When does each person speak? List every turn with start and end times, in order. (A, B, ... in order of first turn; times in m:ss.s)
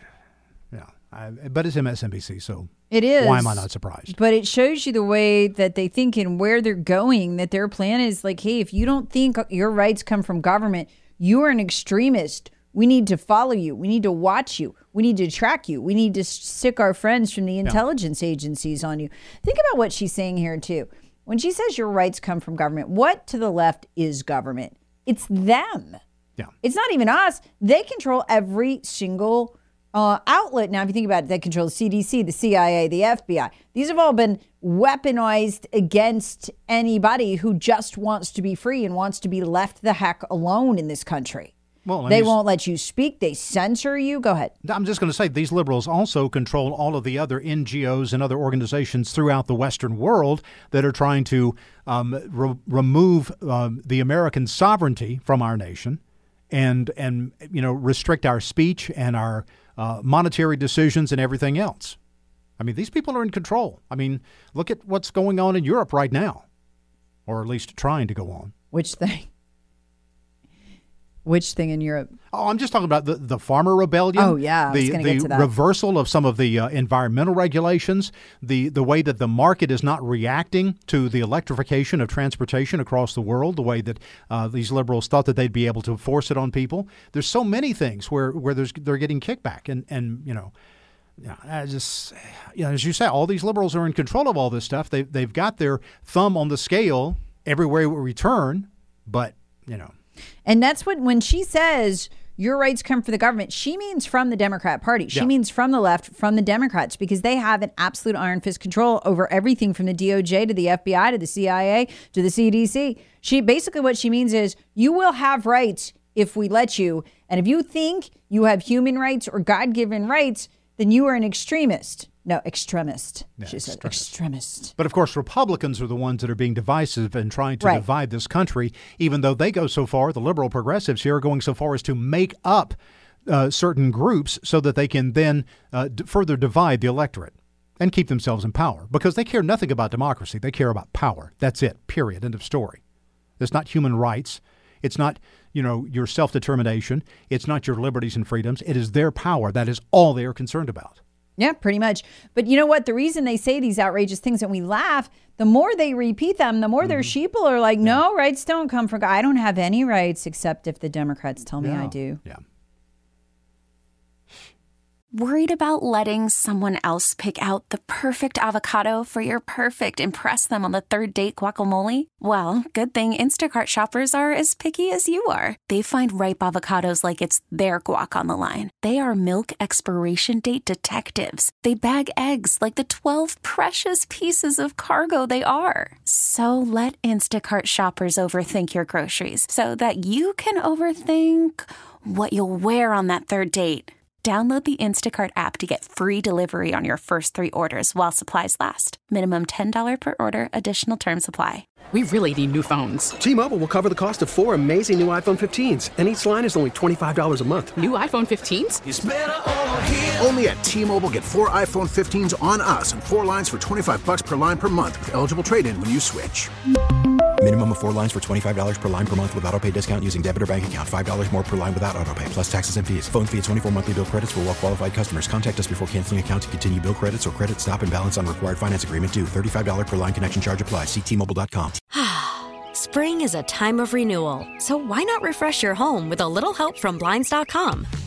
0:00.7-0:04.2 A
0:02.9-0:26.0 B
0:26.6-0:41.5 B
0:41.8-0:42.4 A
0:42.1-0:44.5 B
0:44.6-1:02.0 A
1:02.6-1:06.4 A
1:07.3-1:08.5 A
1:08.7-1:09.3 B
1:11.2-1:12.2 B
1:12.3-1:30.5 A
1:14.2-1:15.5 B
1:31.2-1:39.9 A
1:40.5-2:04.7 B
2:03.4-2:04.1 A
2:04.8-2:22.8 A
2:23.4-2:31.0 A
2:31.4-2:42.2 B
2:36.8-2:37.1 A
2:41.6-2:42.4 A
2:45.1-3:21.7 C
3:21.9-3:23.1 D
3:23.1-3:27.9 E
3:27.8-3:28.8 D
3:28.8-3:36.5 F
3:37.4-3:51.8 G
3:51.9-3:57.9 H